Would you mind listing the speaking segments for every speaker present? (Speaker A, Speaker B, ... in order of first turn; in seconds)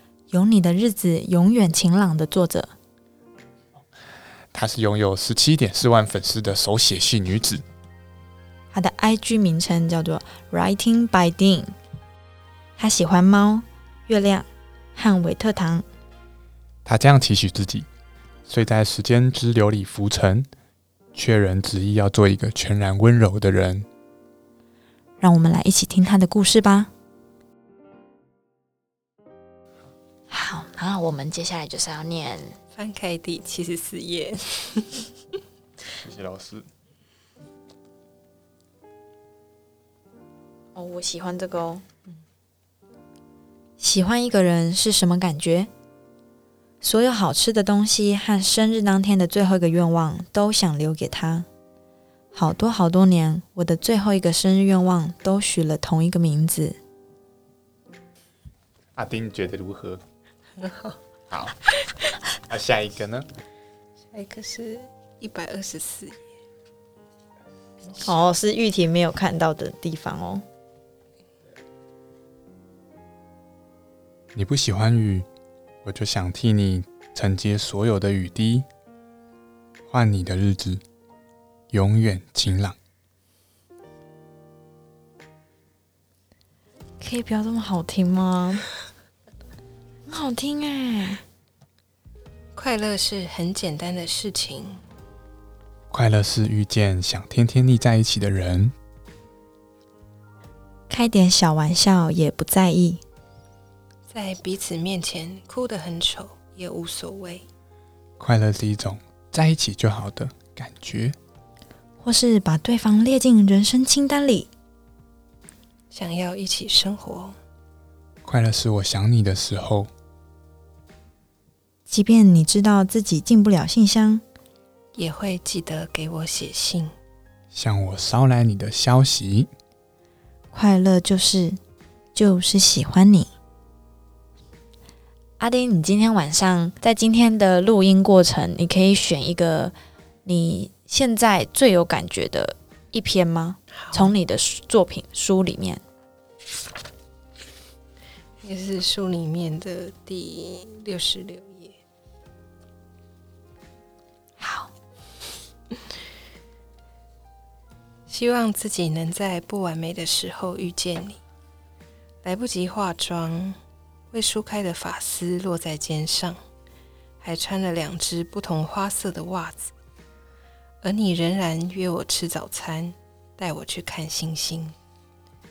Speaker A: 0.3-2.7, 8.7-11.7, 12.8-15.8, 25.2-26.9, 30.3-32.5, 40.7-41.8, 43.8-45.7, 46.8-51.5, 52.3-56.8, 68.0-70.4, 87.0-88.7, 90.1-91.2, 100.9-103.0, 112.0-114.5, 121.9-124.2, 130.5-131.6, 132.1-133.3, 135.4-145.8, 154.4-154.7
Speaker B: 4.5-7.6, 16.8-17.9, 18.4-20.5, 21.1-23.9, 35.9-36.7, 59.0-60.0, 61.3-61.5, 62.4-63.3, 74.3-75.3, 75.8-78.7, 79.9-80.8, 81.7-82.8, 95.9-98.7, 108.2-111.2, 118.2-119.9, 127.5-129.5
Speaker C: 32.7-35.1, 60.6-61.0, 64.1-66.2, 92.5-94.8, 104.1-107.5, 115.9-117.4, 124.9-126.9, 143.8-144.1, 148.4-151.8, 158.1-161.2, 162.2-163.6, 164.1-166.4, 167.2-169.7, 170.8-174.8